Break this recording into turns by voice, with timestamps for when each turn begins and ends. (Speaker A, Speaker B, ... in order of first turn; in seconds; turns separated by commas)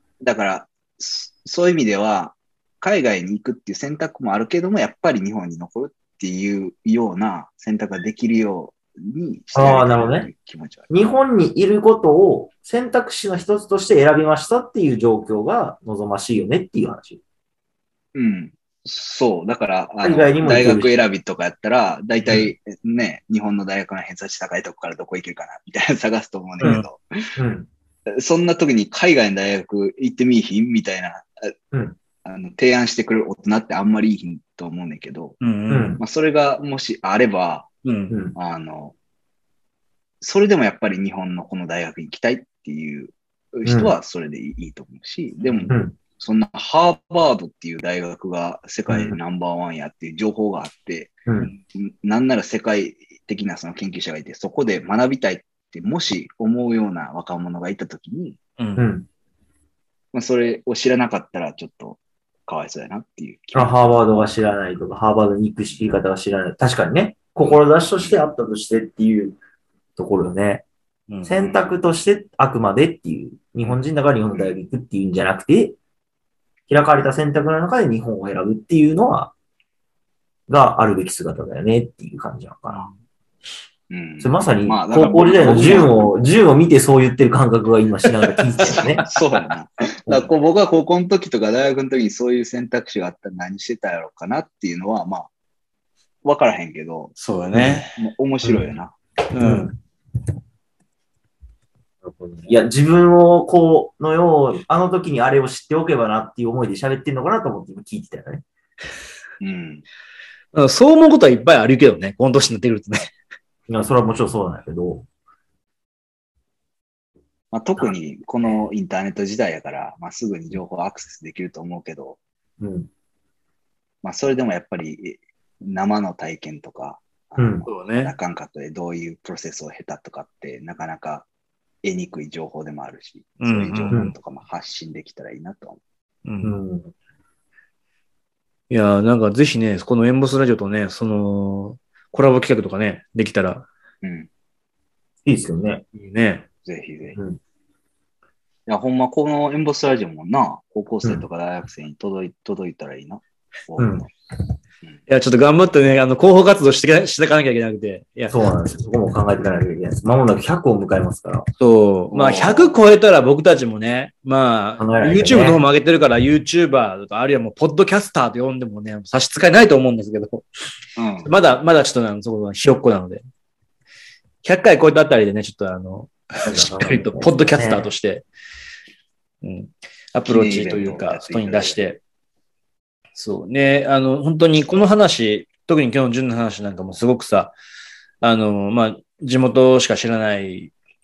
Speaker A: 0.2-10.9, Speaker B: 9.5-10.3, Speaker B: 10.9-17.2, Speaker A: 18.1-27.0, Speaker B: 20.0-20.9, Speaker B: 27.4-27.7, Speaker A: 28.1-31.5, Speaker A: 32.2-35.4, Speaker C: 35.4-36.0, Speaker B: 35.7-36.0, Speaker A: 36.0-37.7, Speaker C: 37.8-38.2, Speaker B: 38.1-38.4, Speaker A: 38.4-39.0, Speaker A: 40.2-51.2, Speaker B: 43.6-44.0, Speaker B: 45.7-46.0, Speaker B: 48.9-49.2, Speaker B: 51.3-51.5, Speaker A: 51.7-58.4, Speaker C: 58.6-58.9, Speaker B: 58.8-59.1, Speaker A: 60.1-63.9, Speaker B: 63.5-69.4, Speaker A: 67.4-68.2, Speaker B: 70.0-70.7, Speaker C: 71.1-71.5, Speaker B: 71.2-75.8, Speaker B: 76.7-79.3, Speaker B: 80.5-82.9, Speaker A: 83.9-85.9, Speaker B: 84.2-89.0, Speaker C: 85.3-85.9, Speaker C: 88.1-89.3, Speaker A: 89.0-95.3, Speaker A: 96.2-97.2, Speaker C: 97.2-98.0, Speaker B: 97.5-97.8, Speaker A: 98.0-99.0, Speaker C: 99.3-99.7, Speaker B: 99.4-99.8, Speaker B: 102.0-108.5, Speaker A: 109.4-109.8, Speaker C: 110.5-113.0, Speaker B: 113.7-115.1, Speaker A: 117.5-122.2, Speaker B: 122.6-122.9, Speaker A: 124.0-131.3, Speaker B: 127.4-127.7, Speaker C: 127.7-128.1, Speaker A: 131.8-135.8, Speaker C: 133.4-134.1, Speaker C: 136.2-136.6, Speaker B: 136.4-136.9, Speaker C: 138.7-143.7, Speaker A: 144.0-144.3, Speaker B: 145.2-145.8, Speaker C: 145.9-146.5, Speaker A: 146.7-147.2, Speaker B: 147.2-147.4, Speaker A: 148.7-154.1, Speaker B: 153.8-154.1, Speaker C: 155.1-158.3, Speaker B: 158.3-161.5, Speaker C: 161.6-170.5, Speaker A: 162.1-162.8, Speaker B: 164.8-165.6, Speaker A: 171.0-171.3, Speaker C: 171.2-173.2, Speaker C: 174.4-178.3, Speaker B: 176.4-177.9, Speaker C: 179.4-182.0, Speaker A: 180.2-181.8, Speaker C: 183.2-187.5, Speaker C: 188.2-190.7